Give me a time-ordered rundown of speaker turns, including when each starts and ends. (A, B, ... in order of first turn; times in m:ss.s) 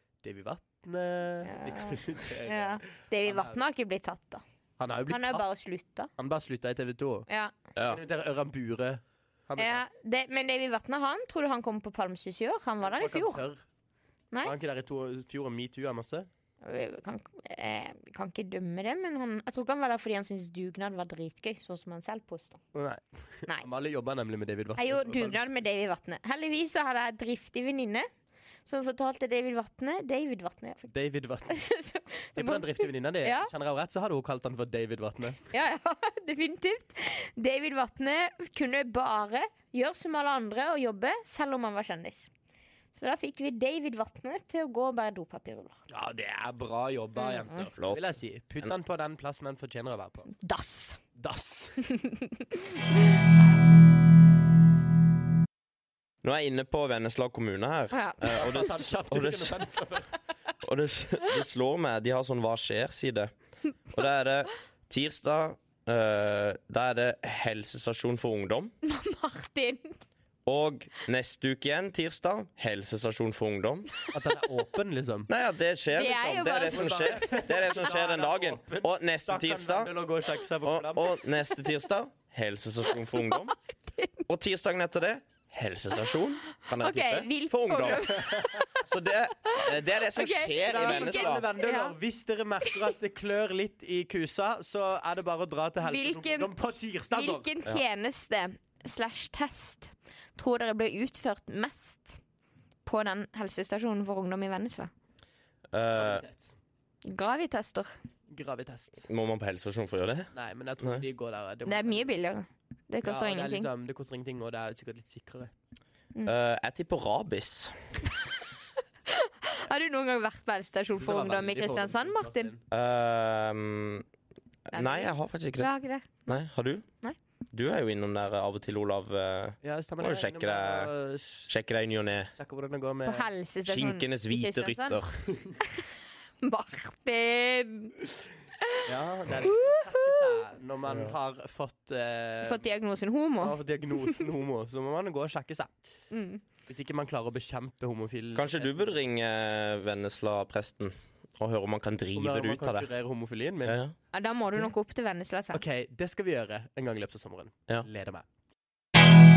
0:00.2-0:03.6 A
0:01.4-0:04.4 B
0:04.8-0:05.4 A
0:05.1-0:06.1 B
0:06.2-0:07.3 A
0:07.8-0:08.0 C
0:07.9-0:09.9 A
0:09.6-0:13.4 B
0:12.8-0:13.6 A
0:14.4-0:16.3 A
0:16.6-0:22.6 B
0:22.7-0:25.4 A
0:24.8-0:28.1 B
0:28.7-0:30.9 B
0:30.9-0:31.6 A
0:31.5-0:33.5 B
0:32.4-0:35.5 A
0:35.5-0:42.3 B
0:42.9-0:45.8 B
0:45.9-0:50.3 A
0:47.2-0:47.6 B
0:50.4-0:51.0 B
0:51.2-0:51.8 A
0:51.8-0:53.2 B
0:56.2-0:59.6 C
0:57.9-0:58.6 B
0:58.2-1:00.1 A
1:00.6-1:03.3 C
1:03.9-1:08.7 C
1:08.8-1:10.0 B
1:10.5-1:13.9 C
1:14.1-1:15.3 A
1:15.3-1:19.9 C
1:15.9-1:17.7 B
1:16.7-1:21.2 A
1:20.6-1:23.5 C
1:23.1-1:24.2 B
1:24.3-1:28.2 C
1:26.7-1:28.9 B
1:28.1-1:28.7 A
1:28.8-1:31.4 C
1:29.4-1:32.0 B
1:30.6-1:37.5 A
1:35.8-1:42.2 B
1:42.8-1:44.9 B
1:45.7-1:46.2 C
1:46.0-1:46.5 A
1:47.0-1:48.0 B
1:48.3-1:49.1 A
1:49.1-1:50.3 C
1:50.3-1:52.1 A
1:51.7-1:53.7 B
1:53.0-1:55.5 A
1:56.2-1:57.7 C
1:59.1-2:02.5 B
2:01.0-2:02.6 A
2:02.7-2:04.1 C
2:04.7-2:05.7 C
2:04.7-2:06.4 B
2:06.3-2:06.9 C
2:07.5-2:10.9 C
2:09.6-2:11.5 A
2:11.5-2:12.3 C
2:12.4-2:13.3 A
2:13.0-2:15.0 B
2:13.6-2:15.2 C
2:15.3-2:15.6 A
2:15.6-2:18.0 B
2:18.6-2:20.4 B
2:18.8-2:22.7 A
2:22.4-2:24.3 B
2:23.4-2:25.7 A
2:26.1-2:26.4 B
2:26.7-2:29.0 A
2:28.4-2:32.9 C
2:32.2-2:33.8 A
2:33.7-2:33.9 C
2:34.1-2:35.6 B
2:35.5-2:38.2 A